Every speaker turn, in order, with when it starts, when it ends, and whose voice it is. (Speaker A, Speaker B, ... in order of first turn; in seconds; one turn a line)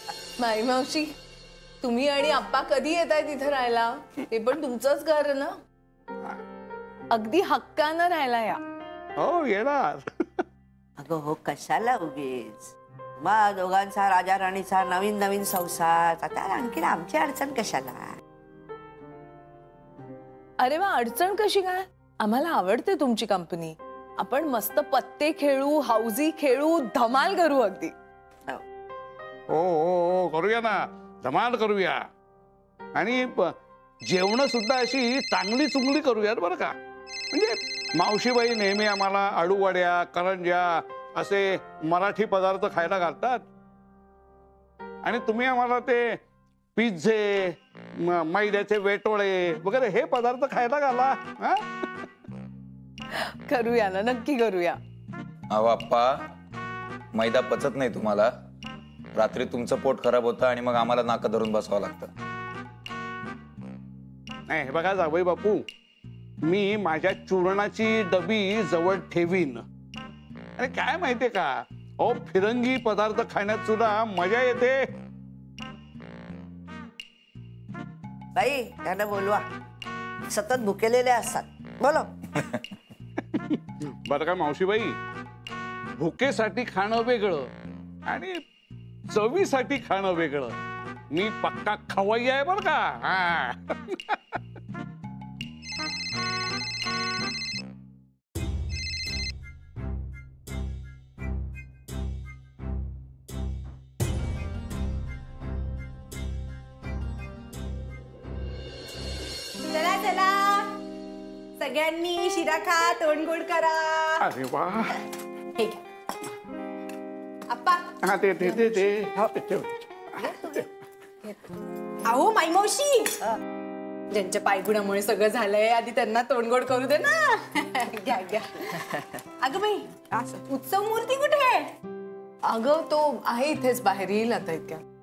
Speaker A: 0.4-1.1
Speaker A: 1.8-5.5
Speaker A: 7.1-8.6
Speaker B: 9.2-10.0
Speaker C: 11.0-18.2
Speaker A: 20.6-27.9
Speaker B: 29.5-32.0
Speaker B: 33.0-33.5
Speaker B: 34.1-36.7
Speaker B: 37.3-43.4
Speaker B: 45.0-46.0
Speaker B: 46.8-51.6
Speaker A: 53.1-54.8
Speaker D: 55.5-56.1
Speaker D: 57.1-58.3
Speaker D: 59.1-62.1
Speaker B: 64.5-65.6
Speaker B: 66.5-69.6
Speaker B: 70.6-71.5
Speaker B: 72.0-74.8
Speaker C: 78.4-79.4
Speaker C: 80.3-82.1
Speaker D: 82.4-82.6
Speaker B: 83.5-84.9
Speaker B: 86.0-87.5
Speaker B: 88.1-88.4
Speaker B: 89.1-90.5
Speaker B: 91.1-94.4
Speaker E: 109.7-110.8
Speaker E: 111.6-114.3
Speaker B: 114.2-115.0
Speaker E: 115.6-115.8
Speaker E: 117.5-118.0
Speaker B: 118.0-119.7
Speaker E: 122.0-123.3
Speaker E: 124.1-131.7
Speaker A: 132.5-134.8